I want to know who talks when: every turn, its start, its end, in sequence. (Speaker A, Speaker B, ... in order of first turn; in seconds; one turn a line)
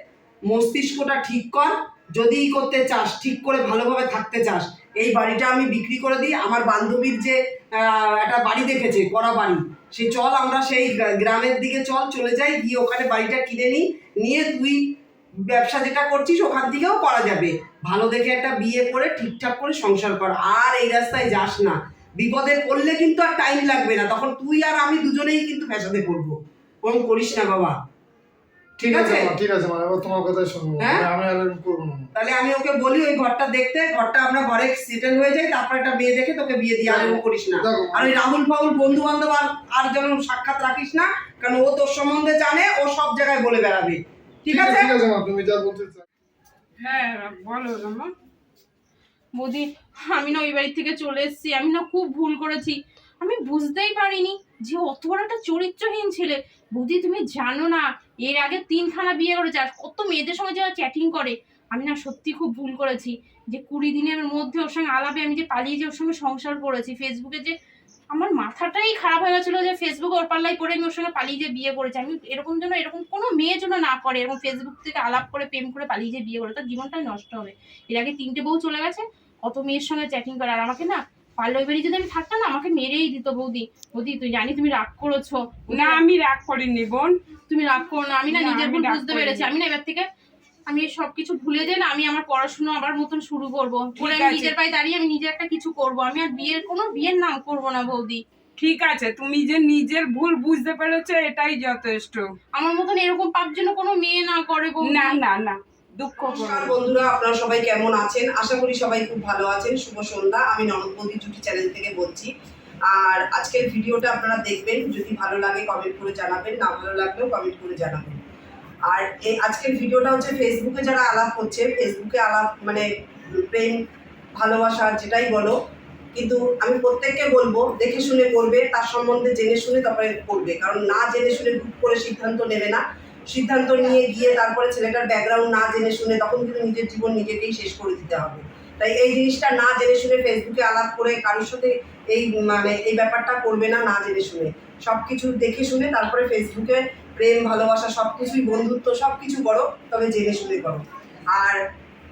Speaker A: 0.5-14.8
Speaker A: 15.5-26.3
Speaker A: 26.8-27.8
Speaker B: 28.8-32.1
Speaker A: 28.9-29.3
Speaker A: 30.8-31.1
Speaker A: 32.1-44.9
Speaker B: 36.9-38.1
Speaker B: 44.5-46.0
Speaker C: 46.8-48.1
Speaker D: 49.4-67.5
Speaker D: 68.1-86.0
Speaker C: 85.7-87.1
Speaker D: 87.5-90.0
Speaker C: 88.3-89.5
Speaker D: 90.7-98.2
Speaker C: 94.0-94.5
Speaker C: 98.6-102.2
Speaker D: 102.5-105.2
Speaker C: 104.9-106.7
Speaker A: 106.3-112.3
Speaker A: 112.9-118.2
Speaker A: 118.9-122.8
Speaker A: 123.5-123.8
Speaker A: 124.4-125.5
Speaker A: 126.1-151.6